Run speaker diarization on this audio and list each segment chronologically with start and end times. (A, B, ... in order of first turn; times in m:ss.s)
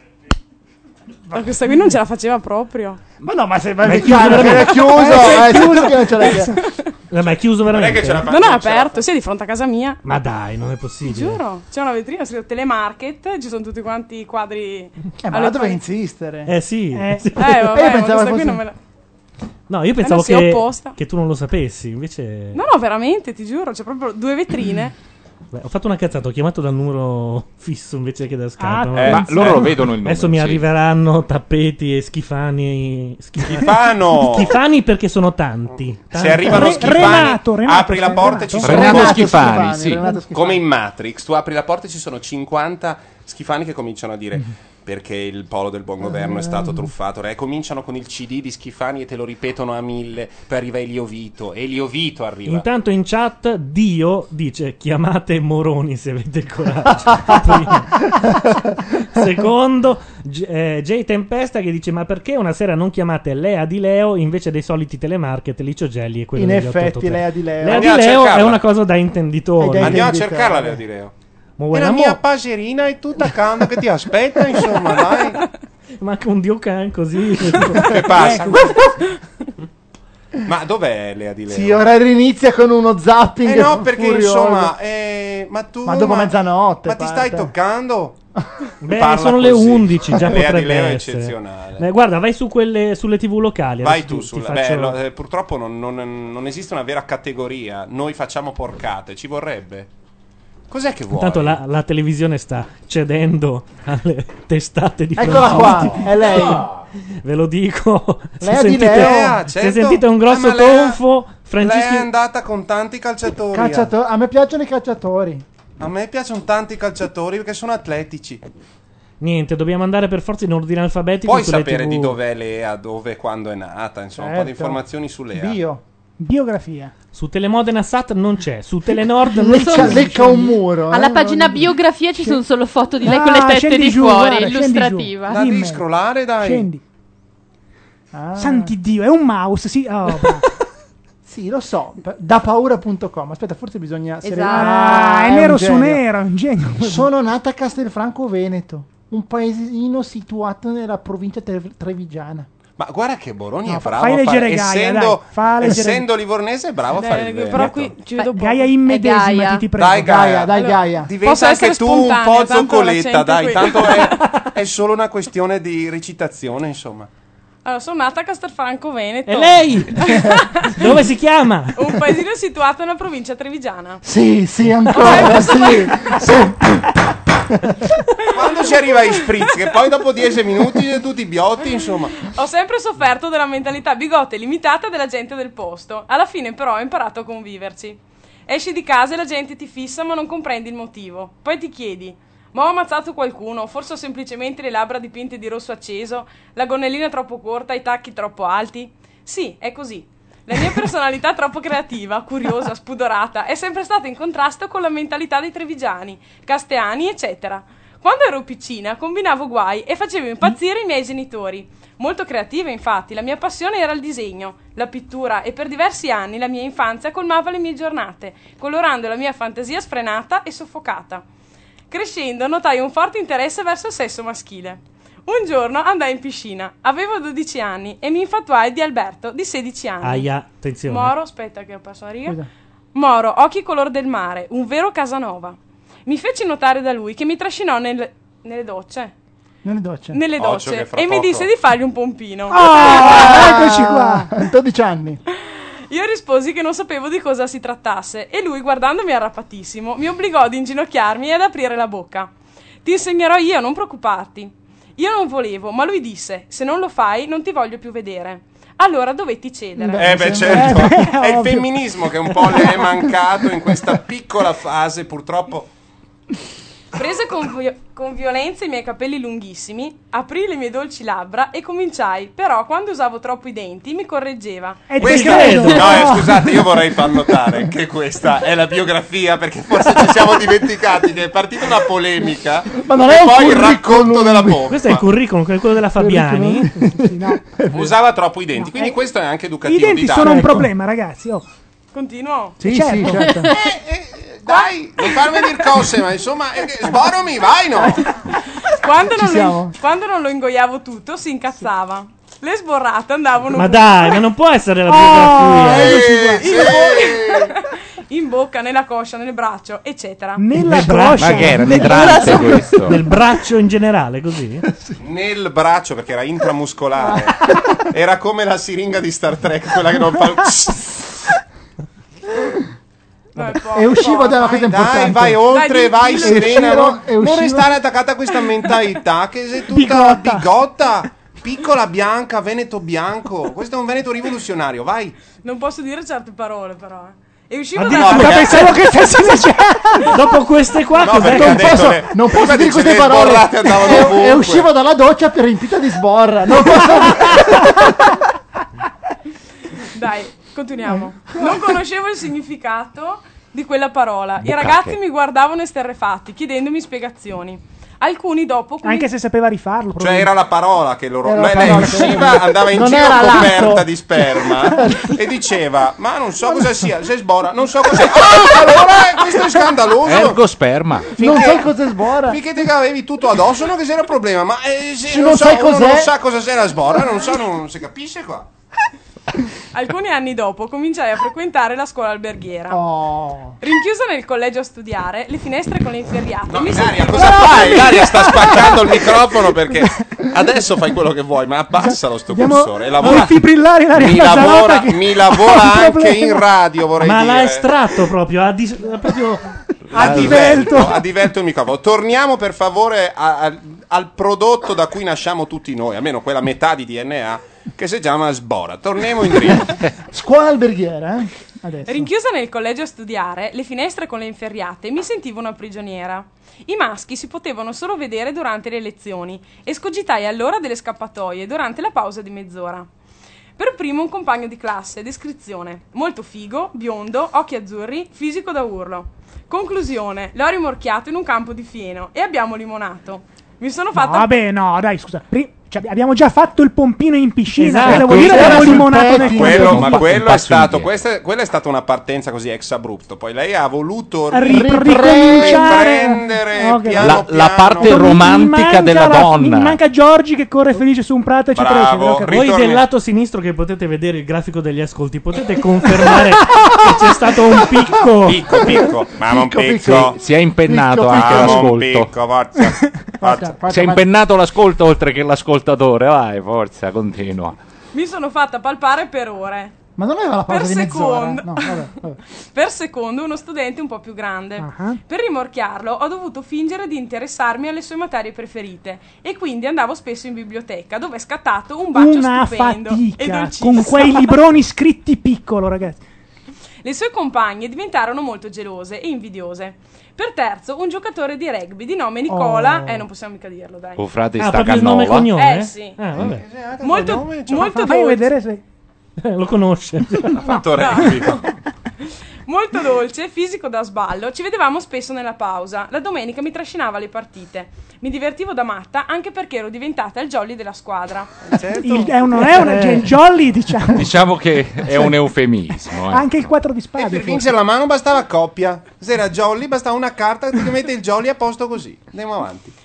0:01.3-0:03.0 A
0:03.2-0:06.6 B
0:03.8-0:05.1 C
0:04.6-0:06.9 A
0:05.0-0:05.4 D
0:07.1-0:08.3 C
0:07.2-0:09.1 D
0:08.3-0:10.0 A
0:10.0-0:11.4 C
0:11.0-0:15.8 A
0:15.2-0:16.5 B
0:16.4-0:17.5 C
0:16.9-0:17.4 E
0:17.4-0:18.8 A
0:17.6-0:18.6 B
0:19.7-0:22.6 C
0:20.0-0:21.0 A
0:22.5-0:24.9 A
0:25.5-0:37.3 C
0:28.6-0:29.5 E
0:29.0-0:30.6 F
0:33.4-0:34.5 D
0:36.1-0:39.3 D
0:36.4-0:38.8 E
0:38.1-0:40.6 B
0:38.6-0:40.0 F
0:40.3-0:52.7 D
0:46.0-0:46.9 B
0:52.5-0:58.0 C
0:59.0-1:10.1 C
1:06.4-1:07.9 B
1:07.7-1:08.6 D
1:09.6-1:10.8 B
1:09.8-1:11.1 D
1:11.6-1:12.2 C
1:11.7-1:15.4 D
1:16.0-1:18.4 C
1:17.8-1:18.9 D
1:18.2-1:18.6 E
1:20.4-1:21.9 D
1:21.5-1:24.7 B
1:23.4-1:28.2 D
1:25.8-1:27.5 B
1:28.8-1:35.0 C
1:28.9-1:31.8 D
1:33.8-1:39.9 D
1:40.7-1:41.6 D
1:41.1-1:46.3 C
1:45.2-1:46.6 B
1:47.2-1:52.1 C
1:48.4-1:49.4 B
1:48.8-1:51.0 D
1:51.6-1:53.9 D
1:53.5-1:55.4 B
1:55.8-1:58.4 D
1:59.2-2:02.2 C
2:01.2-2:05.6 D
2:04.2-2:04.8 B
2:05.3-2:05.8 B
2:06.2-2:06.9 E
2:07.1-2:10.1 C
2:09.3-2:11.8 B
2:09.6-2:10.6 E
2:09.6-2:09.9 G
2:10.9-2:15.4 G
2:13.0-2:15.8 E
2:15.3-2:16.7 D
2:16.4-2:16.8 E
2:18.1-2:18.7 B
2:18.4-2:20.4 E
2:21.2-2:26.0 B
2:24.2-2:25.0 G
2:24.4-2:27.1 E
2:26.8-2:32.5 B
2:32.8-2:38.0 D
2:33.6-2:36.1 E
2:36.9-2:38.8 A
2:38.3-2:40.3 E
2:38.8-2:39.7 G
2:39.7-2:47.1 D
2:40.0-2:41.1 B
2:40.5-2:44.3 A
2:47.6-2:50.9 A
2:49.2-2:50.2 C
2:50.7-2:51.8 C
2:51.7-2:54.0 A
2:54.0-2:56.9 B
2:54.9-2:56.2 A
2:58.3-3:02.3 D
2:59.1-2:59.5 A
3:02.2-3:41.2 A
3:41.9-3:50.3 A
3:50.0-3:51.1 C
3:50.9-3:52.4 A
3:52.9-3:59.1 A
3:59.6-4:00.2 B
4:00.1-4:03.2 A
4:00.3-4:01.5 D
4:02.5-4:04.3 E
4:02.6-4:05.2 B
4:05.9-4:12.3 A
4:12.8-4:20.1 A
4:19.8-4:20.9 B
4:19.9-4:25.7 D
4:20.5-4:21.7 E
4:26.9-4:35.0 A
4:34.9-4:36.5 E
4:35.0-4:45.0 D
4:35.0-4:36.0 C
4:42.7-4:44.7 B
4:44.7-4:46.8 C
4:46.0-4:47.9 B
4:47.0-4:47.4 E
4:47.7-4:50.5 D
4:48.6-4:49.0 E
4:49.6-4:51.4 E
4:50.2-4:50.7 B
4:51.9-4:52.6 A
4:52.6-4:53.5 E
4:52.6-4:53.5 B
4:53.5-4:58.1 D
4:58.7-5:04.2 A
4:59.0-4:59.7 B
5:03.5-5:06.0 C
5:04.9-5:06.4 E
5:05.2-5:07.5 D
5:06.4-5:10.5 A
5:10.4-5:12.5 E
5:10.6-5:14.6 C
5:11.1-5:13.0 F
5:14.7-5:15.0 B
5:15.0-5:21.0 D
5:17.0-5:17.3 B
5:23.4-5:24.6 A
5:23.6-5:25.5 B
5:24.3-5:35.2 D
5:25.5-5:26.6 A
5:26.1-5:27.7 B
5:29.7-5:30.5 E
5:35.4-5:38.7 A
5:37.8-5:38.8 D
5:37.8-5:40.1 E
5:40.1-5:41.9 C
5:41.0-5:44.7 D
5:41.3-5:47.9 B
5:49.9-5:59.1 A
5:54.4-5:55.0 F
5:58.8-6:00.3 E
6:00.0-6:10.4 D
6:01.2-6:05.1 B
6:10.0-6:11.1 F
6:11.1-6:11.7 D
6:11.2-6:12.4 B
6:12.2-6:18.5 D
6:15.0-6:16.1 B
6:19.7-6:22.8 A
6:22.7-6:23.6 B
6:23.6-6:27.8 A
6:26.5-6:33.4 D
6:27.2-6:28.8 E
6:31.8-6:36.4 E
6:33.9-6:37.7 D
6:37.0-6:39.5 C
6:39.9-6:40.7 F
6:39.9-6:41.0 E
6:39.9-6:49.8 D
6:50.1-6:52.1 B
6:51.8-7:02.9 A
7:03.6-7:14.4 A
7:13.9-7:19.7 E
7:17.6-7:18.9 C
7:17.8-7:20.1 B
7:18.0-7:20.9 F
7:19.1-7:28.1 D
7:24.3-7:27.2 E
7:24.4-7:25.8 B
7:27.0-7:29.8 F
7:27.8-7:32.5 E
7:31.5-7:32.8 D
7:32.3-7:38.4 C
7:38.3-7:40.2 D
7:39.2-7:41.7 B
7:39.8-7:42.1 F
7:41.0-7:43.6 D
7:43.2-7:44.1 B
7:43.7-7:47.6 F
7:47.9-7:49.7 A
7:50.0-7:52.2 B
7:50.5-7:51.9 A
7:52.5-8:04.3 A
7:54.6-7:55.0 E
8:01.9-8:06.0 E
8:06.8-8:14.0 A
8:12.3-8:13.0 E
8:14.0-8:15.3 F
8:14.4-8:16.4 C
8:15.3-8:16.1 A
8:16.1-8:17.8 D
8:16.8-8:18.3 A
8:17.5-8:18.6 E
8:19.2-8:20.4 C
8:20.4-8:21.4 D
8:20.8-8:21.5 A
8:22.5-8:31.4 A
8:31.4-8:32.3 D
8:31.8-8:34.1 E
8:32.5-8:33.1 B
8:33.9-8:36.5 F
8:36.1-8:37.5 E
8:37.0-8:42.7 D